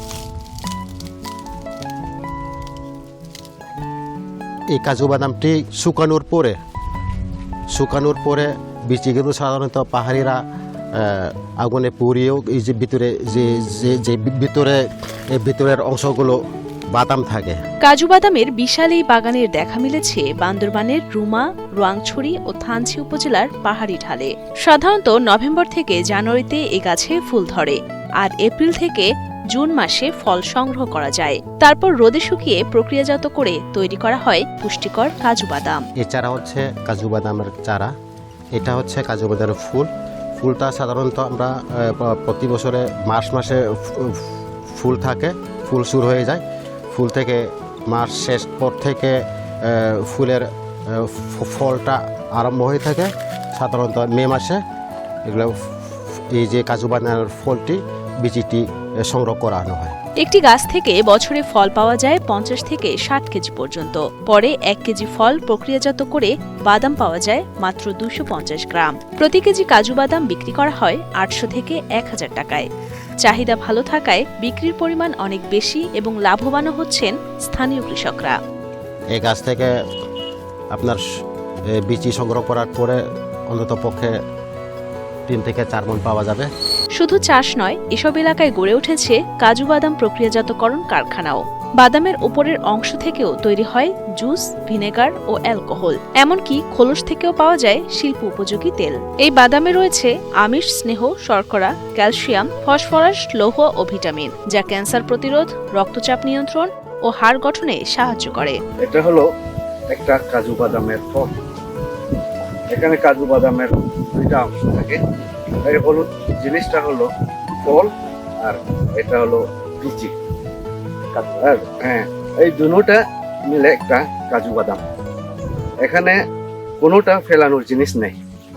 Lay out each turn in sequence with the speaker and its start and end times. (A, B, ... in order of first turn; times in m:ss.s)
0:04.7-0:06.6 A
0:07.7-0:10.4 A
0:10.9-0:14.8 A
0:15.3-0:16.4 A
0:16.9-0:17.6 A
0:17.8-0:35.8 B
0:36.0-0:37.9 A
0:38.6-0:54.6 A
0:55.3-1:00.0 A
1:00.2-1:12.7 B
1:13.2-1:18.4 B
1:19.1-1:19.7 A
1:20.7-1:21.0 A
1:21.8-1:23.0 A
1:23.5-1:24.1 A
1:25.3-1:26.5 A
1:27.0-1:48.6 B
1:48.8-1:49.3 C
1:49.9-1:51.3 C
1:52.7-1:55.0 C
1:55.6-1:57.1 C
1:57.6-2:00.1 C
2:01.2-2:04.8 C
2:05.8-2:06.2 C
2:06.8-2:08.2 C